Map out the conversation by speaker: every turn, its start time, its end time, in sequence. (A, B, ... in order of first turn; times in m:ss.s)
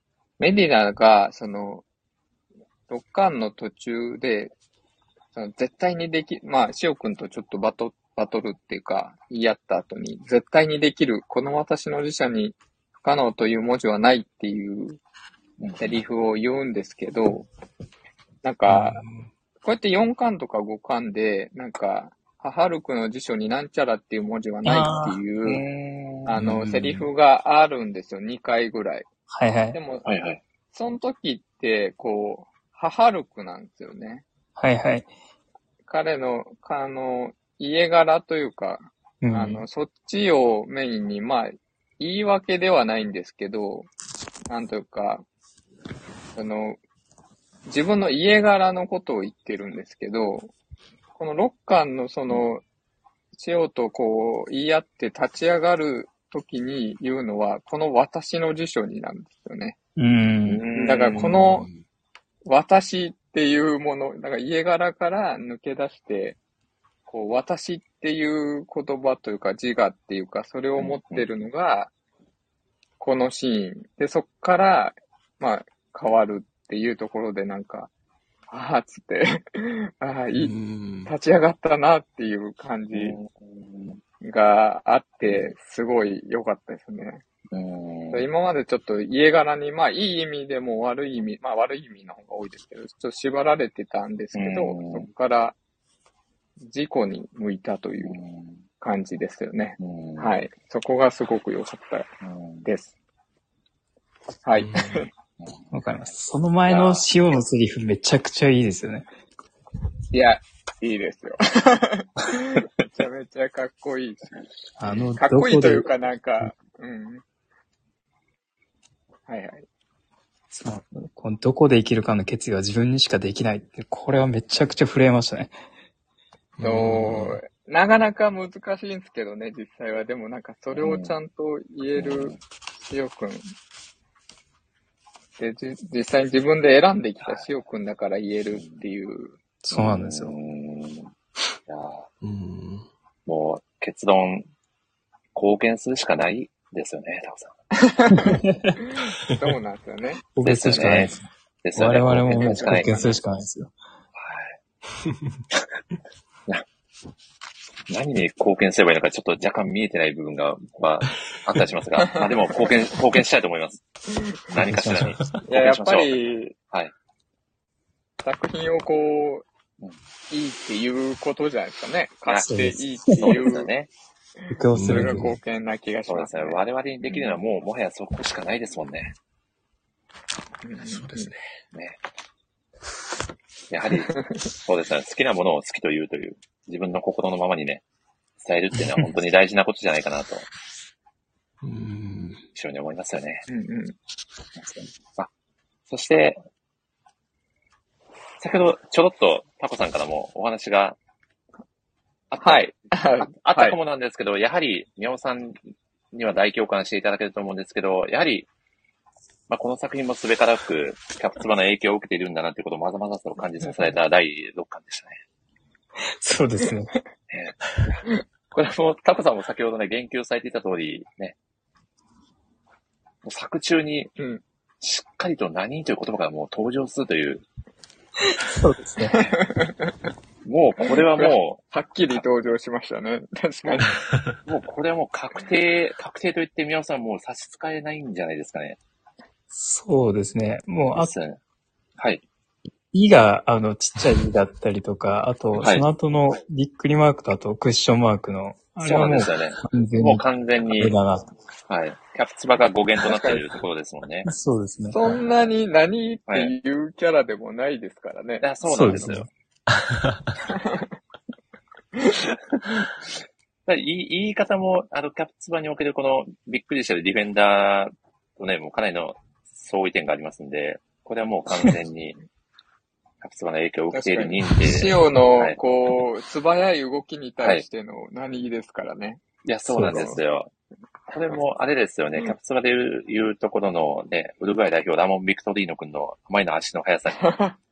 0:00.4-0:01.8 A
0:02.9-0:04.5 A
0:05.3-0:15.0 A
0:15.6-0:16.0 B
0:15.8-0:17.5 A
0:18.4-0:19.0 A
0:18.7-0:19.3 C
0:19.6-0:25.6 A
0:24.6-0:25.2 D
0:25.4-0:26.4 B
0:26.2-0:29.1 A
0:26.4-0:27.0 C
0:29.3-0:29.8 D
0:29.7-0:30.0 A
0:30.0-0:30.4 B
0:30.7-0:34.2 A
0:34.6-0:35.1 D
0:35.9-0:43.9 A
0:39.2-0:39.6 D
0:44.5-0:45.2 A
0:46.4-0:46.8 A
0:47.7-0:50.5 A
0:51.2-0:52.6 A
0:53.3-0:59.8 A
1:00.0-1:00.7 D
1:00.4-1:01.4 B
1:00.7-1:01.7 A
1:01.4-1:01.8 C
1:02.4-1:06.4 A
1:07.1-1:11.9 A
1:10.8-1:11.2 B
1:13.0-1:17.9 A
1:18.5-1:20.5 A
1:20.3-1:21.1 C
1:21.0-1:23.2 A
1:22.9-1:24.0 B
1:24.2-1:27.2 A
1:25.2-1:25.5 B
1:27.5-1:28.2 B
1:28.1-1:35.6 A
1:34.3-1:35.1 B
1:36.6-1:38.2 A
1:38.0-1:38.6 B
1:38.8-1:42.1 A
1:39.8-1:40.4 B
1:42.2-1:42.7 B
1:42.6-1:42.9 A
1:44.4-1:45.1 A
1:44.6-1:45.0 C
1:45.7-1:49.1 D
1:46.7-1:47.0 B
1:50.1-1:54.4 A
1:54.8-1:55.9 D
1:55.1-1:57.2 A
1:59.3-1:59.6 A
2:00.5-2:05.5 D
2:06.6-2:07.4 C
2:06.6-2:12.4 A
2:10.7-2:11.2 B
2:11.9-2:12.4 B
2:12.9-2:13.5 A
2:15.4-2:19.4 A
2:18.5-2:18.8 B
2:19.6-2:20.3 D
2:19.7-2:21.1 B
2:21.7-2:22.1 B
2:22.2-2:22.9 C
2:23.2-2:24.5 B
2:25.3-2:27.6 B
2:27.8-2:30.3 A
2:28.1-2:28.8 D
2:30.3-2:33.7 D
2:30.4-2:31.1 B
2:31.6-2:33.1 B
2:32.3-2:33.1 A
2:34.2-2:34.6 B
2:37.9-2:43.8 B
2:44.5-2:46.2 B
2:44.6-2:45.2 D
2:45.1-2:45.4 C
2:45.4-2:46.5 A
2:48.2-2:49.4 A
2:50.3-2:53.7 A
2:52.4-2:53.4 D
2:53.1-2:53.9 B
2:54.5-2:57.4 A
2:54.5-2:55.4 D
2:54.7-2:55.3 C
2:56.1-2:59.1 B
3:00.6-3:01.3 A
3:00.8-3:01.5 C
3:01.7-3:02.0 B
3:03.7-3:07.8 B
3:08.4-3:10.4 B
3:11.6-3:12.4 C
3:12.5-3:13.5 B
3:13.5-3:14.0 A
3:14.6-3:15.3 B
3:15.9-3:16.4 B
3:18.4-3:21.0 B
3:22.3-3:25.6 B
3:22.4-3:23.8 A
3:26.1-3:28.5 B
3:29.5-3:35.2 B
3:36.2-3:36.9 D
3:37.3-3:41.3 B
3:43.2-3:44.1 B
3:44.8-3:47.4 B
3:48.3-3:49.2 D
3:49.1-3:49.8 A
3:50.4-3:52.2 B
3:51.1-3:54.0 A
3:54.4-3:58.8 B
3:59.5-4:01.1 D
4:00.9-4:01.4 B
4:02.0-4:02.2 B
4:02.9-4:10.2 D
4:05.6-4:05.8 B
4:08.8-4:11.0 B
4:10.7-4:11.3 D
4:11.7-4:14.3 B
4:13.0-4:13.5 A
4:14.2-4:15.2 D
4:14.9-4:18.5 A
4:16.3-4:16.5 B
4:18.4-4:19.3 B
4:18.6-4:19.3 D
4:19.7-4:20.4 C
4:20.5-4:20.9 A
4:23.6-4:32.2 B
4:33.2-4:35.6 B
4:33.9-4:39.2 A
4:39.4-4:40.5 B
4:39.7-4:40.0 D
4:39.8-4:40.2 A
4:41.1-4:47.2 B
4:47.1-4:47.6 A